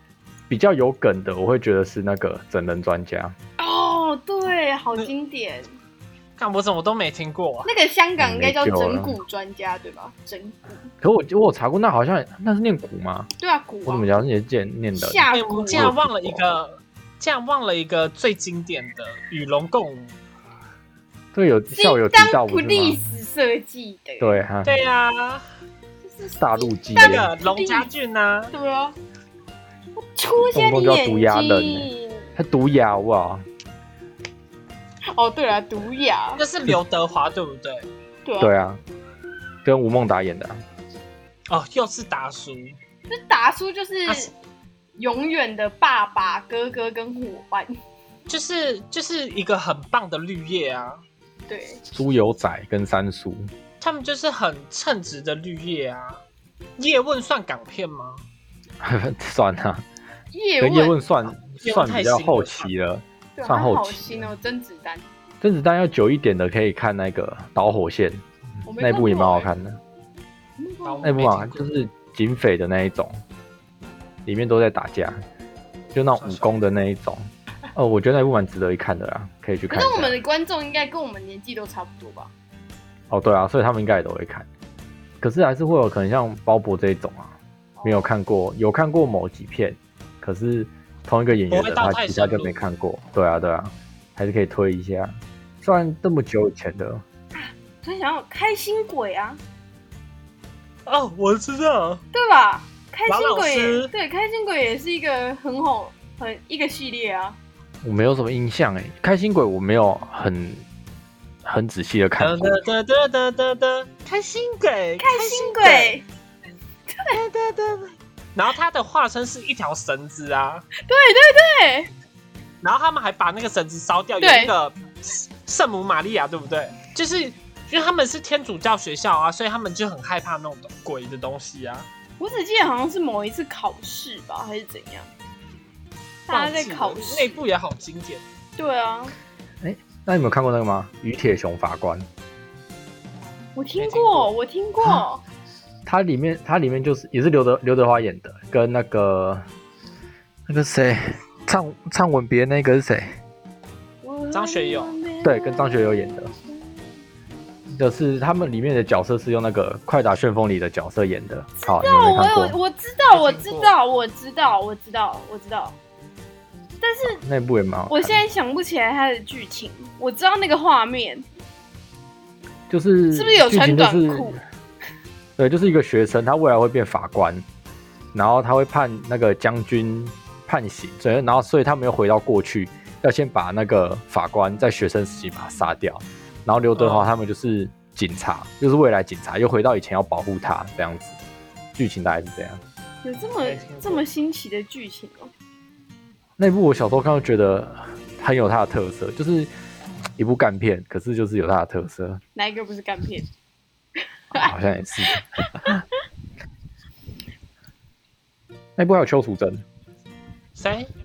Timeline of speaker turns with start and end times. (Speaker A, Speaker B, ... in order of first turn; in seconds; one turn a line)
Speaker A: 0.5-3.4
Speaker B: 3.6-5.7
Speaker C: 6.4-7.7
Speaker B: 7.6-10.8
Speaker A: 8.2-9.2
Speaker A: 11.0-13.3
Speaker B: 13.4-14.1
Speaker A: 13.8-16.6
Speaker B: 14.9-15.9
Speaker C: 15.3-20.1
Speaker A: 21.3-23.0
Speaker B: 21.7-24.4
Speaker A: 24.2-24.8
Speaker C: 24.6-25.4
Speaker B: 26.0-27.9
Speaker A: 26.4-27.3
Speaker C: 26.9-28.5
Speaker B: 28.5-29.0
Speaker B: 29.9-32.3
Speaker A: 30.5-33.5
Speaker B: 35.1-36.4
Speaker C: 36.4-37.9
Speaker B: 38.2-38.5
Speaker A: 38.4-38.8
Speaker A: 39.6-40.6
Speaker C: 41.5-42.8
Speaker B: 43.1-44.3
Speaker C: 44.0-44.3
Speaker B: 45.0-47.8
Speaker C: 48.3-51.0
Speaker B: 51.5-51.8
Speaker A: 51.9-53.5
Speaker C: 53.8-56.2
Speaker C: 56.8-58.2
Speaker A: 58.8-59.8
Speaker B: 60.3-61.0
Speaker A: 60.6-64.3
Speaker C: 61.5-62.7
Speaker B: 63.4-65.0
Speaker A: 65.4-68.2
Speaker B: 68.7-69.5
Speaker A: 68.8-69.8
Speaker B: 70.6-71.1
Speaker C: 70.8-71.7
Speaker A: 71.0-73.2
Speaker A: 74.2-75.2
Speaker A: 75.9-80.2
Speaker C: 76.2-76.5
Speaker B: 79.7-82.3
Speaker A: 83.1-84.5
Speaker A: 85.2-97.0
Speaker B: 87.8-88.1
Speaker C: 91.5-92.6
Speaker B: 97.3-99.4
Speaker C: 100.8-102.0
Speaker B: 102.1-107.4
Speaker C: 103.1-103.9
Speaker A: 107.8-110.7
Speaker A: 111.4-112.6
Speaker C: 112.2-116.0
Speaker B: 115.0-116.0
Speaker B: 116.9-117.5
Speaker C: 117.2-117.7
Speaker C: 118.3-120.7
Speaker B: 120.8-121.9
Speaker C: 122.6-131.9
Speaker B: 124.2-124.5
Speaker B: 132.2-135.1
Speaker B: 136.3-137.4
Speaker C: 136.3-138.2
Speaker B: 138.6-139.1
Speaker A: 139.6-142.1
Speaker B: 143.6-145.2
Speaker C: 143.8-144.3
Speaker A: 145.8-149.4
Speaker A: 150.5-153.2
Speaker B: 154.0-156.7
Speaker C: 154.3-154.9
Speaker A: 155.2-156.3
Speaker A: 157.7-162.6
Speaker B: 161.6-165.8
Speaker C: 163.1-163.7
Speaker B: 166.8-167.2
Speaker A: 167.2-168.2
Speaker B: 167.9-171.2
Speaker A: 172.7-174.3
Speaker B: 173.1-174.4
Speaker A: 175.4-177.4
Speaker A: 178.1-191.2
Speaker C: 186.7-187.1
Speaker A: 191.7-192.6
Speaker B: 193.0-195.3
Speaker C: 193.4-194.0
Speaker A: 196.4-199.5
Speaker A: 200.2-202.2
Speaker B: 202.3-203.3
Speaker A: 204.3-205.8
Speaker B: 205.1-205.7
Speaker A: 208.8-209.6
Speaker C: 210.6-210.9